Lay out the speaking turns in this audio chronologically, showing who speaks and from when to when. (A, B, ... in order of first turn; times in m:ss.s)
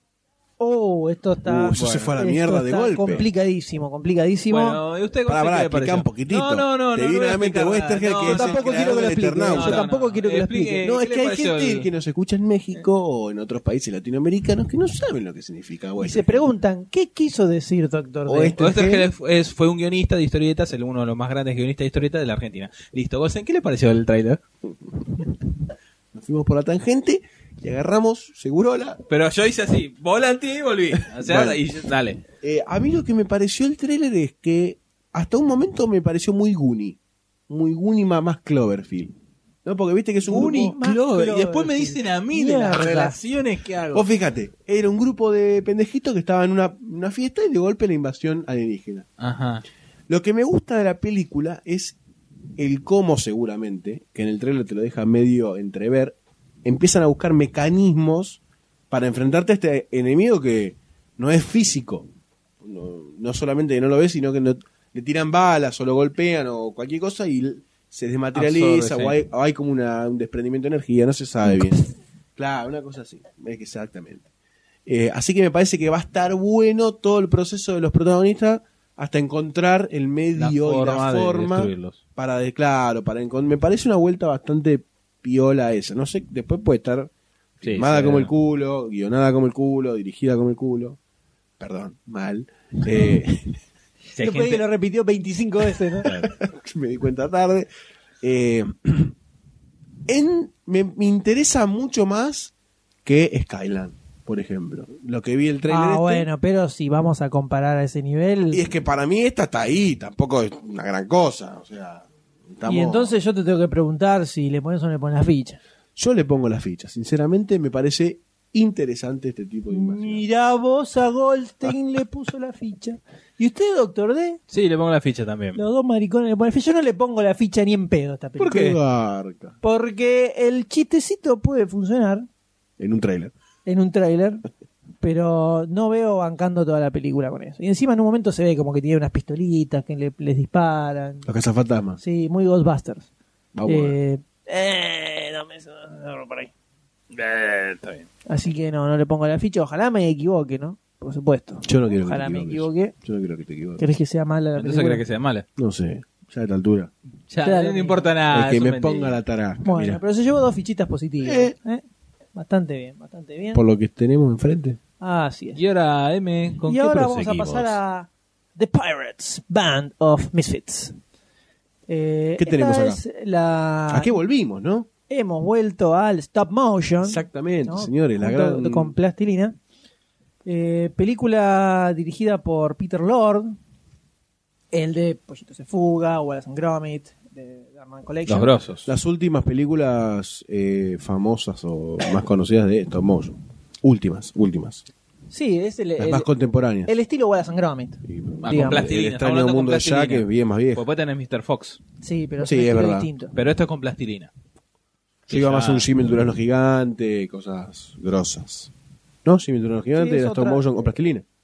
0:00.6-0:04.8 A
0:01.4-0:03.3 B
0:04.5-0:11.9 C
0:05.2-0:09.8 B
0:08.2-0:10.8 A
0:10.8-0:16.4 B
0:16.0-0:18.7 A
0:18.3-0:19.1 B
0:18.6-0:24.4 C
0:26.1-0:29.0 B
0:29.1-0:32.2 C
0:31.1-0:31.6 B
0:32.4-0:37.0 B
0:37.5-0:40.8 B
0:40.3-0:43.2 A
0:40.3-0:44.0 C
0:43.9-0:49.0 B
0:49.2-0:49.6 C
0:50.1-0:52.0 B
0:52.6-1:02.1 B
1:02.6-1:14.2 B
1:08.3-1:09.2 C
1:14.8-1:31.0 B
1:20.3-1:22.0 C
1:27.6-1:28.3 C
1:31.6-1:33.6 B
1:34.1-1:34.6 C
1:34.2-1:36.1 A
1:36.0-1:37.7 B
1:36.0-1:36.3 C
1:38.2-1:39.1 B
1:40.1-1:42.5 B
1:43.0-1:46.3 B
1:45.7-1:48.6 A
1:48.5-1:53.1 B
1:52.6-1:55.6 A
1:56.0-2:00.2 B
1:59.7-2:04.4 A
2:04.5-2:05.6 C
2:05.5-2:08.7 A
2:08.4-2:08.8 C
2:08.4-2:09.5 B
2:09.6-2:12.3 A
2:12.8-2:13.3 B
2:13.6-2:14.4 A
2:15.0-2:21.3 A
2:21.2-2:22.0 B
2:22.0-2:23.1 A
2:23.5-2:24.0 B
2:23.7-2:26.5 A
2:27.1-2:28.1 C
2:28.3-2:32.9 A
2:31.6-2:33.8 B
2:33.8-2:35.0 A
2:34.6-2:35.4 C
2:35.6-2:36.9 B
2:37.3-2:39.2 C
2:37.4-2:38.1 A
2:38.3-2:40.0 B
2:39.6-2:41.8 A
2:41.2-2:41.5 B
2:42.3-2:43.6 A
2:43.5-2:44.8 B
2:45.0-2:45.6 A
2:45.6-2:47.8 C
2:46.6-2:51.0 A
2:51.9-2:54.1 A
2:52.4-2:53.0 B
2:53.9-2:54.9 B
2:55.1-2:59.6 A
2:57.0-2:58.9 B
3:00.4-3:03.6 A
3:04.7-3:08.5 A
3:08.2-3:08.9 C
3:08.8-3:14.8 B
3:15.3-3:16.3 A
3:16.0-3:16.9 B
3:16.8-3:18.8 A
3:18.0-3:20.8 B
3:18.4-3:21.8 C
3:22.0-3:23.3 A
3:22.4-3:23.1 B
3:23.3-3:24.3 C
3:25.3-3:25.9 C
3:25.3-3:28.7 B
3:29.2-3:31.2 B
3:29.9-3:30.9 A